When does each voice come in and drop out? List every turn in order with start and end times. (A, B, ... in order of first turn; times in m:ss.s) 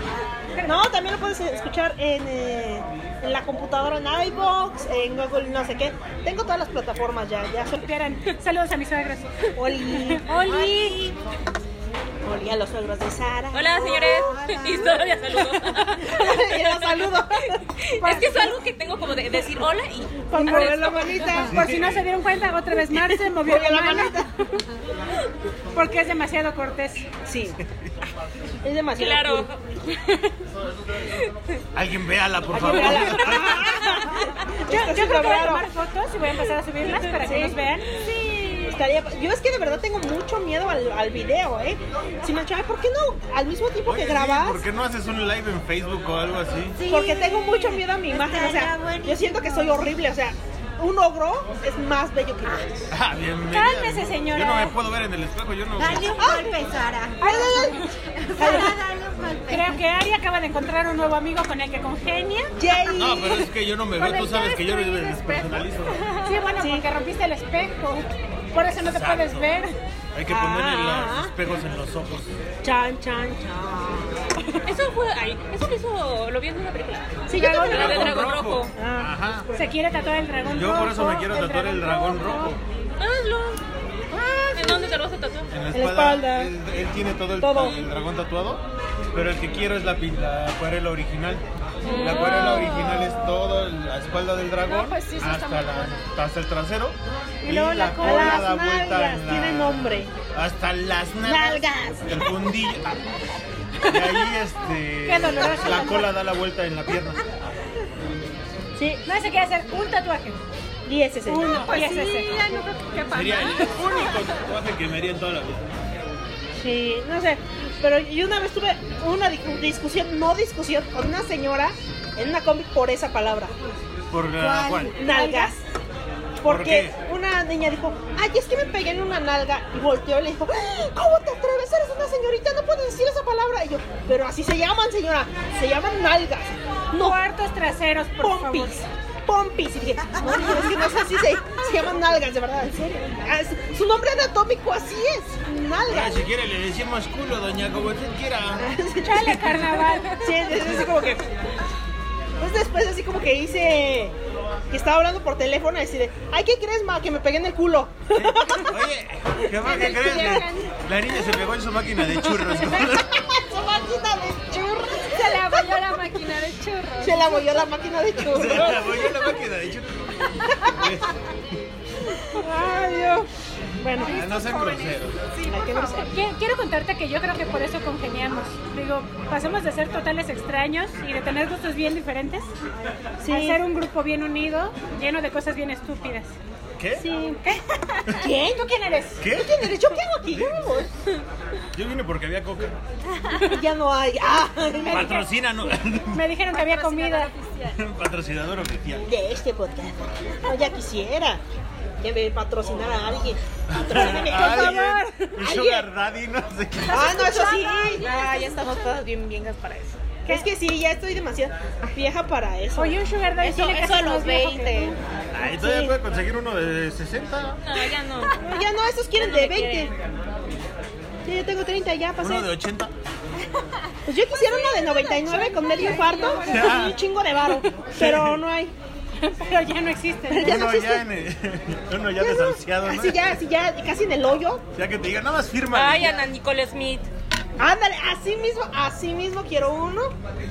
0:00.6-0:07.8 A
0:07.8-0:09.3 B
0:09.5-0:11.1 A
0:09.8-0:11.0 B
0:12.2-0:14.5 A
0:13.5-0:21.4 C
0:14.4-0:14.8 D
0:15.6-0:17.6 A
0:18.0-0:18.4 B
0:20.3-0:21.7 A
0:20.3-0:20.9 B
0:21.4-0:22.0 E
0:21.5-0:24.2 B
0:22.9-0:24.3 A
0:25.7-0:27.1 B
0:27.2-0:27.6 A
0:28.6-0:29.5 A
0:29.0-0:29.6 C
0:31.7-0:33.8 E
0:32.5-0:35.7 A
0:34.6-0:37.9 B
0:37.0-0:37.6 A
0:38.6-0:44.6 A
0:43.8-0:46.8 E
0:46.8-0:49.9 D
0:46.9-0:52.9 A
0:52.9-0:56.3 E
0:53.5-0:54.8 B
0:55.8-0:59.8 D
0:56.2-0:56.6 A
0:57.2-0:57.8 A
0:57.2-0:57.9 B
0:58.4-0:58.7 A
0:59.5-1:02.5 B
1:02.6-1:03.5 A
1:02.9-1:06.0 E
1:05.0-1:06.4 F
1:06.2-1:09.7 B
1:06.6-1:06.8 A
1:08.8-1:09.6 E
1:10.1-1:12.3 E
1:10.2-1:11.3 A
1:12.6-1:14.6 A
1:14.6-1:18.7 C
1:17.3-1:18.2 A
1:17.3-1:17.9 B
1:17.6-1:19.5 E
1:18.7-1:19.1 A
1:19.5-1:22.6 B
1:20.5-1:22.6 E
1:23.0-1:23.6 C
1:24.5-1:25.5 C
1:25.5-1:43.1 E
1:25.7-1:26.5 A
1:27.4-1:27.8 A
1:31.8-1:32.7 C
1:32.1-1:33.2 F
1:34.6-1:36.1 F
1:37.4-1:38.5 B
1:37.9-1:40.1 A
1:41.2-1:42.3 A
1:43.8-1:47.4 E
1:45.0-1:46.1 B
1:48.8-1:49.0 A
1:49.0-1:50.4 B
1:50.8-1:51.7 A
1:51.3-1:52.4 B
1:51.4-1:54.3 F
1:53.1-1:55.7 E
1:56.6-2:03.5 A
2:04.1-2:05.0 E
2:04.4-2:05.6 A
2:05.0-2:05.5 B
2:06.4-2:17.2 A
2:06.4-2:07.0 E
2:16.9-2:18.7 B
2:18.2-2:26.2 A
2:25.9-2:28.7 E
2:28.6-2:29.4 A
2:29.0-2:30.2 B
2:30.1-2:31.2 A
2:32.4-2:34.1 A
2:34.7-2:38.8 A
2:38.1-2:43.2 E
2:39.5-2:40.6 A
2:39.8-2:40.4 F
2:42.5-2:45.9 A
2:45.1-2:47.6 F
2:47.0-2:49.2 A
2:48.2-2:50.0 E
2:50.6-2:51.2 E
2:52.3-2:54.3 A
2:54.0-2:55.9 F
2:54.0-2:55.2 E
2:55.4-2:56.1 A
2:55.8-3:02.5 B
3:03.2-3:03.6 A
3:03.3-3:06.4 B
3:06.8-3:07.0 E
3:06.9-3:07.4 A
3:07.4-3:09.2 B
3:08.1-3:10.9 A
3:09.2-3:09.8 E
3:10.3-3:10.9 E
3:11.7-3:12.8 E
3:13.4-3:15.2 A
3:14.8-3:15.2 B
3:14.9-3:16.3 E
3:16.1-3:17.3 B
3:16.4-3:17.8 F
3:17.7-3:19.1 E
3:19.0-3:21.4 A
3:22.0-3:25.9 A
3:23.7-3:27.3 E
3:24.5-3:25.1 B
3:26.9-3:28.0 A
3:27.0-3:29.0 F
3:28.0-3:30.0 C
3:30.2-3:33.0 A
3:32.8-3:35.0 B
3:33.4-3:35.0 C
3:35.3-3:37.6 E
3:35.4-3:36.0 A
3:37.6-3:38.4 C
3:38.4-3:39.9 A
3:39.2-3:39.9 C
3:41.2-3:42.5 A
3:42.2-3:42.9 E
3:44.0-3:48.7 A
3:44.4-3:46.9 F
3:46.4-3:47.0 E
3:47.9-3:48.4 E
3:49.2-3:50.7 B
3:50.3-3:51.1 A
3:50.4-3:53.2 E
3:52.1-3:54.6 A
3:54.8-3:56.2 E
3:55.7-3:57.1 C
3:57.6-4:00.1 A